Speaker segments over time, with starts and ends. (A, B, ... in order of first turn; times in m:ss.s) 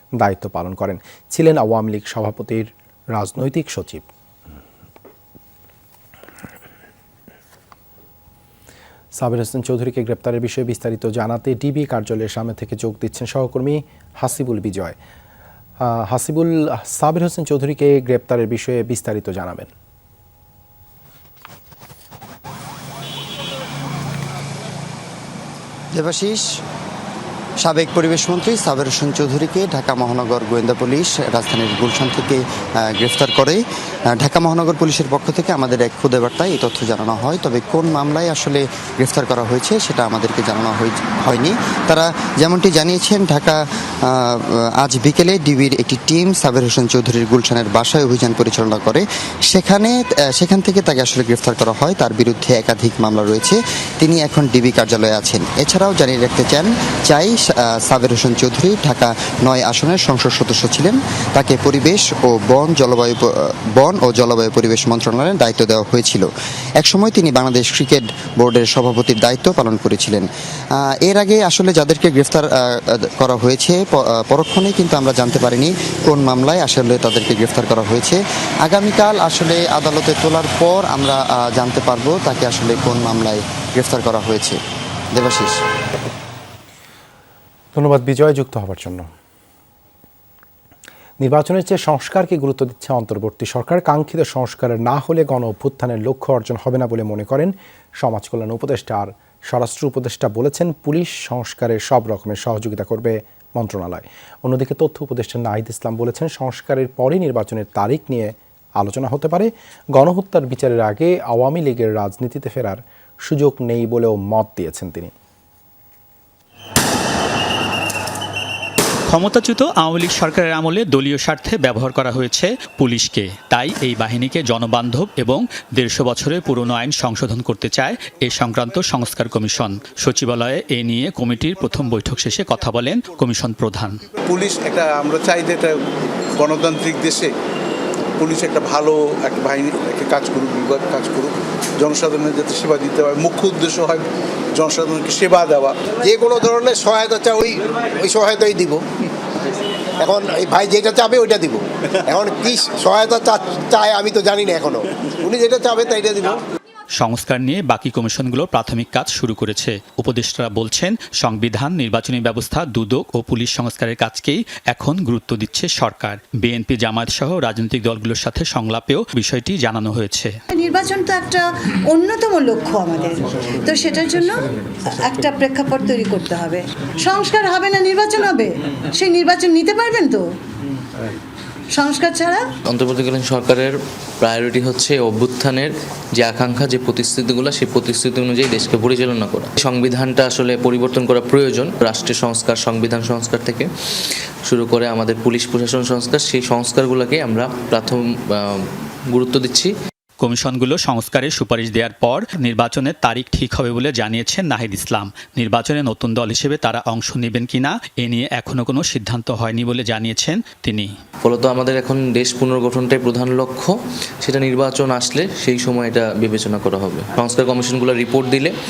0:00.2-0:04.1 A
0:09.2-0:15.0 A
0:15.8-0:19.7 A
0:25.9-0:26.6 B
0:27.6-1:06.3 B
1:06.8-1:10.3 B
1:11.0-1:24.6 B
1:25.1-1:25.6 B
1:27.7-1:29.1 A
1:31.2-1:55.1 A
1:59.1-2:14.0 C
2:14.3-2:15.8 D
2:16.4-2:17.3 D
2:18.2-2:24.0 D
2:24.6-2:25.8 D
2:26.0-2:28.8 E
2:30.0-2:36.4 E
2:37.0-2:50.4 C
2:50.5-3:00.2 F
3:01.8-3:02.4 F
3:02.7-3:19.7 G
3:20.2-3:30.9 C
3:31.2-3:38.5 G